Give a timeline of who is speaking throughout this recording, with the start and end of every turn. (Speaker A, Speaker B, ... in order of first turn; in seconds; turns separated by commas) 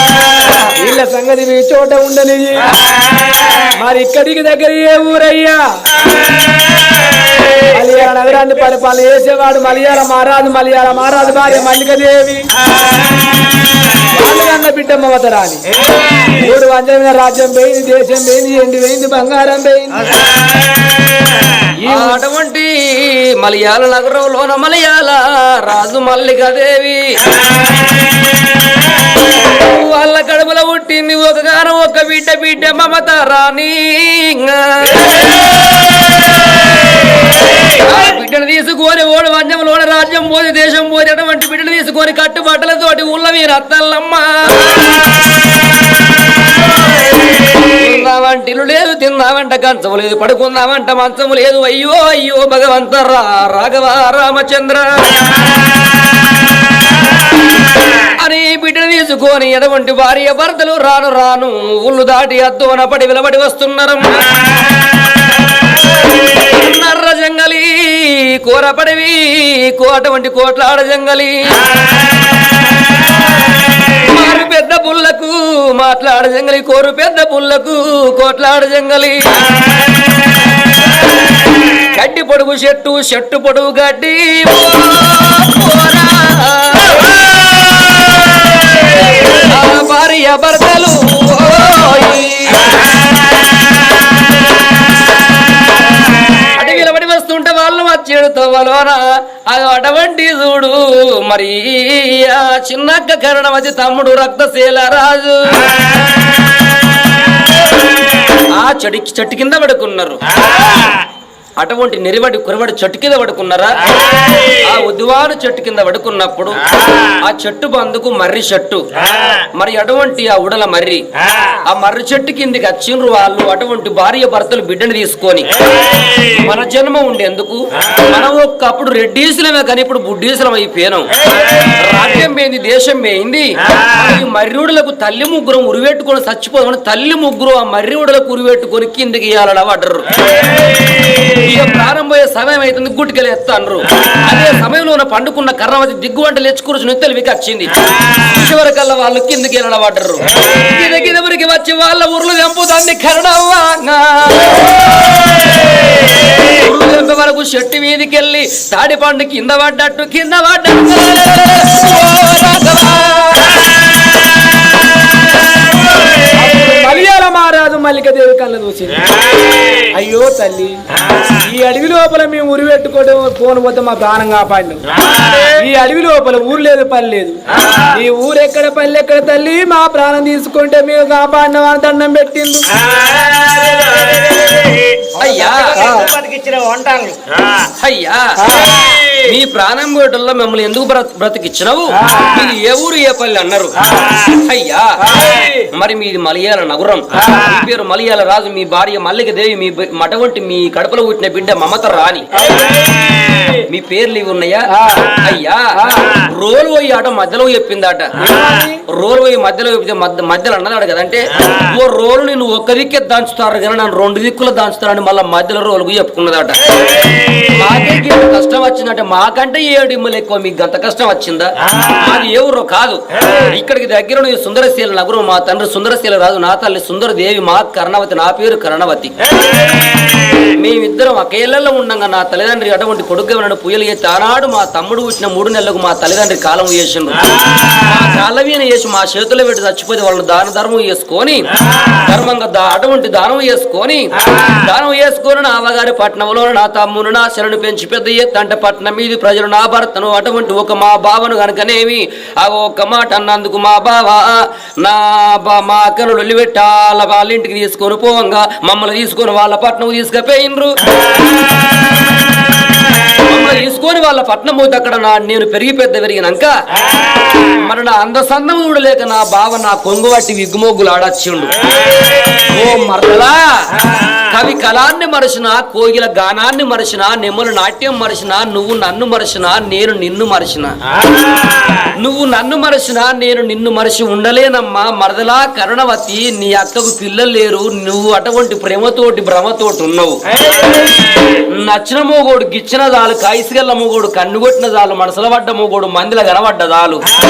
Speaker A: 0.7-2.7, Speaker B: 2.8-3.7, Speaker A: 3.7-5.6, Speaker B: 6.0-7.7, Speaker A: 7.7-12.5, Speaker B: 12.7-14.1, Speaker A: 14.1-15.6, Speaker B: 15.8-16.4, Speaker A: 16.3-20.1, Speaker B: 20.5-21.6, Speaker C: 21.8-27.2, Speaker A: 21.8-22.2, Speaker C: 29.3-35.5, Speaker C: 37.6-45.0, Speaker C: 47.6-55.5, Speaker C: 58.2-64.3, Speaker C: 66.3-71.6, Speaker B: 71.7-72.5, Speaker C: 73.9-79.5, Speaker C: 81.7-93.0, Speaker C: 96.4-105.8, Speaker B: 105.6-107.3, Speaker C: 108.5-110.2, Speaker B: 110.3-111.0, Speaker C: 111.6-113.9, Speaker B: 113.9-114.7, Speaker C: 114.4-116.6, Speaker B: 116.7-117.1, Speaker C: 117.2-118.8, Speaker B: 119.0-119.5, Speaker C: 119.5-121.0, Speaker B: 121.2-121.6, Speaker C: 121.7-125.6, Speaker B: 125.5-126.5, Speaker C: 126.3-140.2, Speaker B: 131.2-131.8, Speaker B: 133.6-133.9, Speaker B: 140.3-141.3, Speaker C: 141.3-163.6, Speaker B: 148.0-148.2, Speaker B: 150.3-150.7, Speaker B: 165.5-166.7, Speaker A: 166.3-169.0, Speaker B: 169.1-169.9, Speaker A: 169.9-170.8, Speaker B: 171.0-171.4, Speaker A: 171.4-182.7, Speaker B: 174.9-175.6, Speaker B: 177.5-177.9, Speaker B: 182.7-187.7, Speaker C: 185.2-185.8, Speaker A: 185.8-186.2, Speaker C: 187.8-202.4, Speaker A: 188.4-188.8, Speaker B: 188.6-189.2, Speaker A: 192.0-192.3, Speaker B: 193.9-194.3, Speaker A: 195.0-195.4, Speaker B: 195.1-195.5, Speaker A: 197.2-197.5, Speaker A: 202.3-202.7, Speaker B: 202.4-203.6, Speaker C: 203.7-208.3, Speaker A: 204.7-205.1, Speaker A: 205.8-206.2, Speaker B: 208.2-208.5, Speaker A: 208.2-208.8, Speaker C: 208.9-216.6, Speaker B: 211.4-211.7, Speaker B: 216.8-217.5, Speaker C: 217.5-229.1, Speaker B: 221.6-222.1, Speaker B: 223.2-223.5, Speaker B: 229.2-230.5, Speaker C: 230.4-260.8, Speaker B: 237.3-237.8, Speaker B: 241.6-242.0, Speaker C: 263.2-266.5, Speaker B: 266.8-267.4, Speaker C: 267.4-271.6, Speaker B: 271.6-272.5, Speaker C: 272.4-273.7, Speaker B: 273.8-274.2, Speaker C: 274.2-280.7, Speaker B: 280.9-281.9, Speaker C: 281.9-290.2, Speaker B: 290.3-291.4, Speaker C: 291.5-297.1